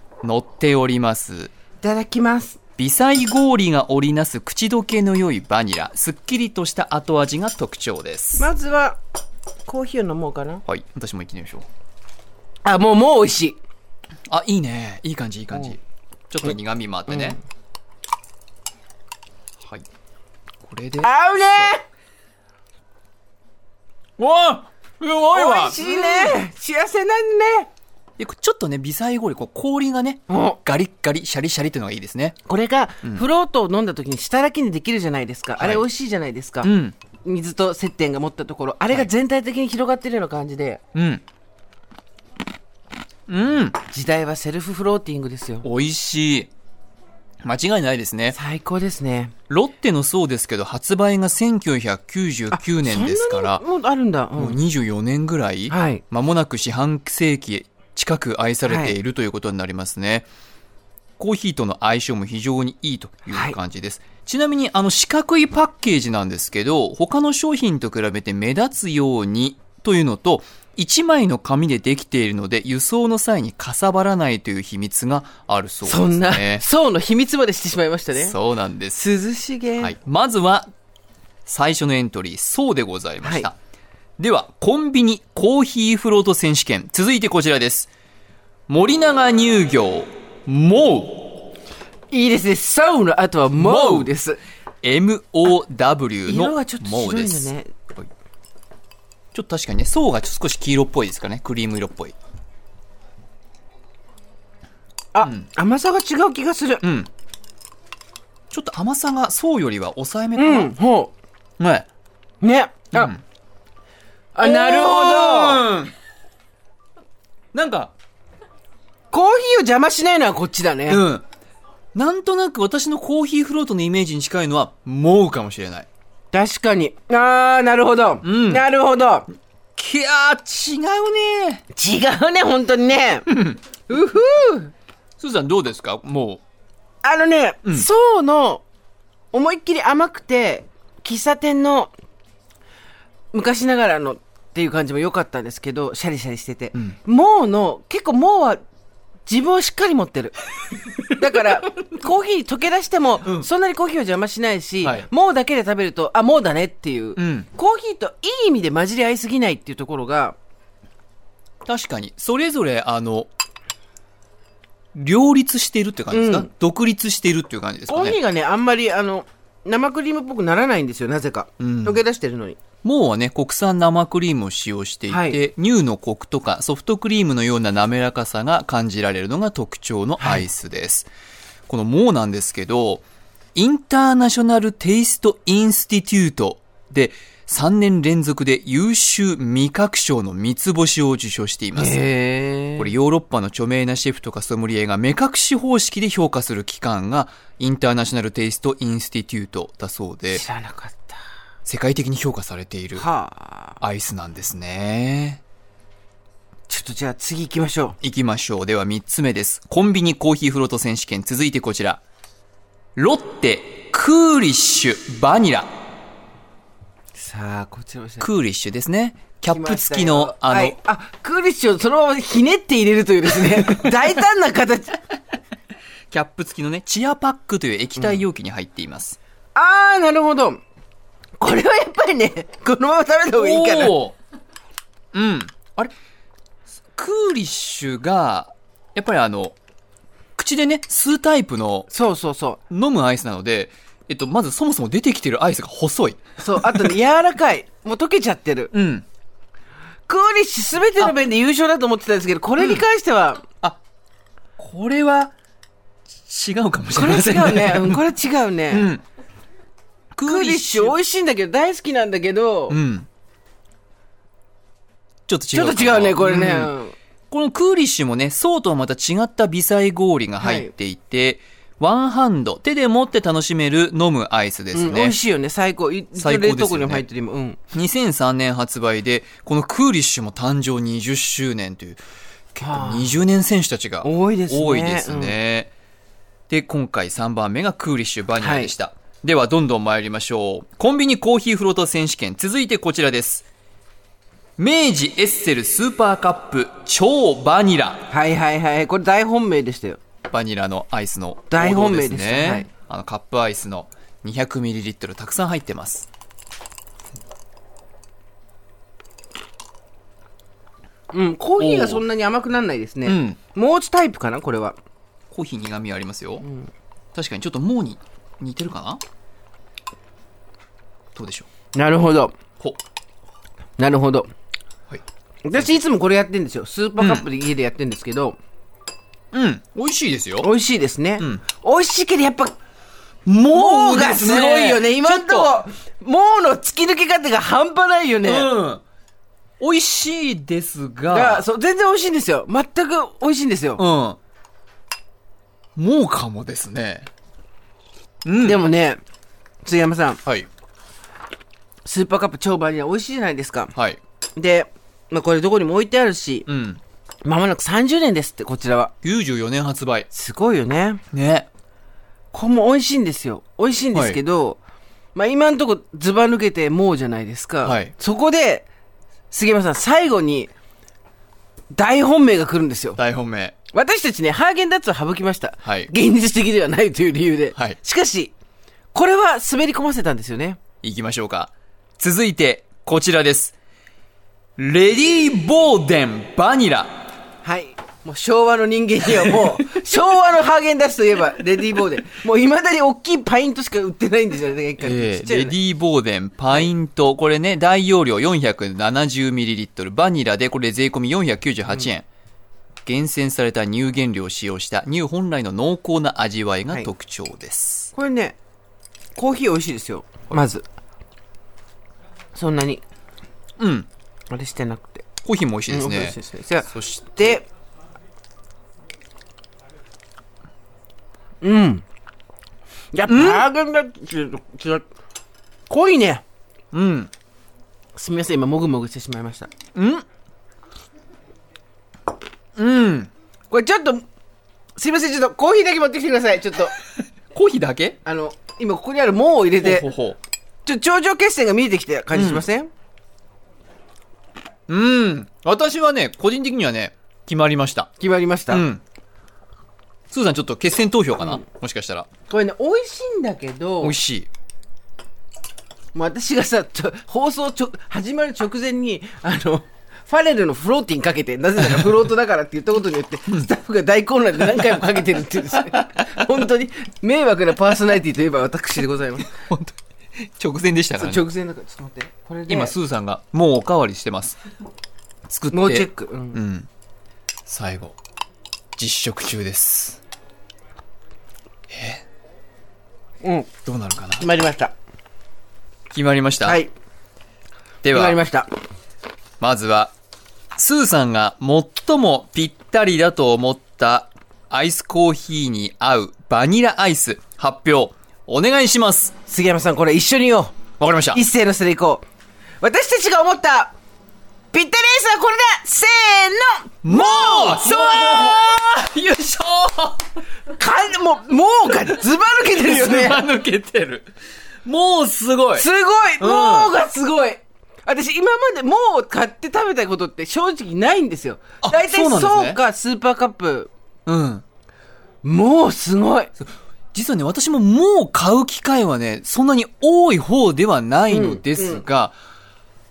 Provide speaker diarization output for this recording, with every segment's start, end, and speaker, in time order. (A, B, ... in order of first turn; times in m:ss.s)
0:00.2-0:01.5 A
0:01.8-0:02.6 B
0:02.8-0:08.5 A
0:08.4-0:09.0 B
0:09.6-0:10.6 B
0:10.7-0:11.6 A
0:12.6-0:13.6 B
0:14.3-0:15.8 A
0:16.3-0:17.4 A
0:17.1-0:17.4 B
0:20.6-0:21.7 A
0:21.0-0:21.8 B
0:24.2-0:26.4 A
0:25.3-0:27.7 B
0:28.2-0:32.4 A
0:30.3-0:30.6 B
0:32.5-0:40.8 B
0:35.6-0:35.8 A
0:36.6-0:37.0 A
0:40.9-0:41.2 A
0:43.3-0:43.8 A
0:43.9-0:45.7 B
0:45.6-0:46.5 A
0:47.4-0:48.4 A
0:48.3-0:49.3 B
0:49.5-0:53.6 A
0:52.5-0:54.6 B
0:54.4-1:00.2 A
0:55.7-0:56.0 B
0:58.7-0:58.9 B
1:01.2-1:16.6 A
1:03.3-1:03.6 B
1:15.8-1:18.4 B
1:18.1-1:19.0 A
1:18.9-1:20.0 B
1:19.8-1:20.7 A
1:21.4-1:23.5 A
1:23.2-1:23.5 B
1:24.2-1:27.9 A
1:28.7-1:31.4 A
1:32.1-1:34.4 B
1:33.6-1:34.1 A
1:34.8-1:38.0 A
1:36.2-1:37.7 B
1:39.3-1:42.1 A
1:45.1-1:46.8 B
1:45.2-1:45.4 A
1:46.8-1:47.1 A
1:48.5-1:50.7 A
1:50.4-1:51.1 B
1:51.6-1:51.9 A
1:52.4-1:53.2 B
1:52.9-1:53.2 A
1:54.3-1:55.6 B
1:54.4-1:55.9 A
1:57.5-1:57.9 A
1:59.1-2:01.0 B
2:00.9-2:01.2 A
2:01.9-2:05.9 A
2:06.3-2:09.3 B
2:08.2-2:08.6 A
2:09.8-2:11.6 A
2:11.7-2:13.3 B
2:13.3-2:13.6 A
2:13.9-2:14.7 B
2:15.2-2:16.4 A
2:17.0-2:18.6 B
2:19.3-2:21.9 B
2:23.3-2:28.6 B
2:29.3-2:30.3 B
2:31.1-2:40.4 B
2:37.2-2:37.5 A
2:41.6-2:43.3 A
2:45.0-2:48.2 A
2:46.1-2:46.5 B
2:47.9-2:52.6 B
2:51.6-2:52.0 A
2:52.8-3:01.1 A
2:55.1-2:55.4 B
3:01.7-3:03.0 A
3:03.5-3:12.0 A
3:11.8-3:12.9 B
3:12.8-3:20.4 A
3:20.3-3:21.2 B
3:21.6-3:23.0 A
3:23.0-3:23.8 B
3:23.8-3:25.4 A
3:26.7-3:28.0 B
3:28.0-3:32.0 A
3:33.0-3:35.7 A
3:37.1-3:38.3 B
3:38.2-3:40.8 A
3:39.5-3:45.0 B
3:46.1-3:49.2 A
3:48.0-3:48.2 B
3:49.5-3:50.6 B
3:51.4-3:54.0 B
3:53.3-3:54.1 A
3:55.1-3:55.9 A
3:56.9-3:59.6 A
4:00.4-4:01.9 A
4:01.9-4:02.6 B
4:02.7-4:06.2 A
4:06.4-4:08.7 B
4:08.7-4:09.0 A
4:10.1-4:13.4 B
4:14.6-4:15.3 A
4:16.2-4:18.1 A
4:16.9-4:18.9 B
4:18.7-4:19.0 A
4:20.1-4:21.0 A
4:20.2-4:22.8 B
4:22.7-4:23.1 A
4:25.3-4:26.7 A
4:25.5-4:27.0 B
4:27.3-4:35.2 A
4:30.4-4:30.7 B
4:34.7-4:37.6 B
4:36.2-4:37.0 A
4:37.7-4:42.0 A
4:42.5-4:45.7 A
4:42.6-4:43.2 B
4:44.0-4:45.4 B
4:46.5-4:53.4 A
4:48.4-4:48.7 B
4:54.6-4:58.0 A
4:58.1-5:00.0 B
5:00.3-5:06.1 A
5:01.5-5:02.7 B
5:11.1-5:14.8 B
5:11.6-5:12.0 A
5:13.0-5:13.4 A
5:15.3-5:16.4 A
5:17.1-5:19.0 A
5:21.1-5:21.5 A
5:21.7-5:22.3 B
5:23.8-5:24.3 B
5:25.4-5:28.4 B
5:27.0-5:27.2 A
5:29.3-5:30.5 A
5:30.4-5:32.6 B
5:33.2-5:35.6 A
5:33.5-5:38.5 B
5:38.2-5:38.8 A
5:39.6-5:41.4 A
5:41.1-5:43.8 B
5:43.8-5:44.2 A
5:45.8-5:47.1 A
5:48.2-5:48.6 A
5:48.4-5:49.0 B
5:49.6-5:50.2 B
5:51.8-5:53.7 B
5:53.7-5:54.0 A
5:54.4-5:56.5 B
5:56.5-5:56.8 A
5:57.2-5:58.9 B
5:59.0-6:00.1 A
6:00.1-6:01.0 B
6:01.1-6:01.5 A
6:02.3-6:04.6 B
6:03.9-6:04.2 A
6:05.1-6:08.6 B
6:07.6-6:07.9 A
6:09.3-6:10.5 B
6:11.7-6:13.0 B
6:13.0-6:13.5 A
6:13.7-6:18.3 B
6:15.6-6:15.9 A
6:18.9-6:20.6 B
6:20.8-6:23.5 A
6:24.6-6:26.9 A
6:27.4-6:35.5 B
6:34.8-6:42.0 A
6:42.8-6:47.9 A
6:47.9-6:48.4 B
6:49.2-6:50.6 B
6:52.3-6:52.8 B
6:53.6-6:53.9 A
6:54.3-6:55.0 B
6:55.2-6:56.2 A
6:55.7-6:57.4 B
6:56.7-6:57.4 A
7:01.4-7:01.8 B
7:02.9-7:04.8 B
7:03.1-7:03.4 A
7:05.7-7:06.2 B
7:06.7-7:07.1 A
7:07.9-7:09.5 B
7:09.7-7:10.0 A
7:12.6-7:13.1 A
7:13.5-7:14.0 B
7:14.8-7:16.7 B
7:17.3-7:18.0 A
7:18.0-7:19.9 B
7:19.6-7:20.2 A
7:20.6-7:22.7 B
7:22.1-7:22.4 A
7:24.7-7:27.9 A
7:28.0-7:28.6 B
7:28.5-7:28.8 A
7:30.1-7:32.1 A
7:32.3-7:34.0 B
7:33.8-7:34.3 A
7:35.9-7:49.3 B
7:49.3-7:51.2 A
7:51.0-7:52.7 B
7:52.5-7:54.4 A
7:55.3-7:56.7 A
7:55.5-7:56.4 B
7:57.5-7:57.9 A
7:58.8-8:00.0 A
8:01.7-8:02.0 A
8:03.2-8:03.5 B
8:03.6-8:04.3 A
8:04.2-8:04.7 B
8:05.9-8:06.6 A
8:06.4-8:06.7 B
8:07.8-8:08.2 A
8:07.9-8:08.5 B
8:09.4-8:09.9 A
8:10.6-8:19.1 A
8:19.3-8:20.6 B
8:20.8-8:21.2 A
8:21.1-8:22.0 B
8:22.6-8:23.7 B
8:24.5-8:28.6 B
8:26.8-8:30.1 A
8:30.5-8:33.2 B
8:32.4-8:34.1 A
8:34.6-8:35.6 A
8:35.5-8:43.7 B
8:36.2-8:36.7 A
8:41.6-8:42.6 A
8:44.0-8:44.4 A
8:45.2-8:46.3 B
8:46.4-8:52.1 A
8:51.1-8:51.8 B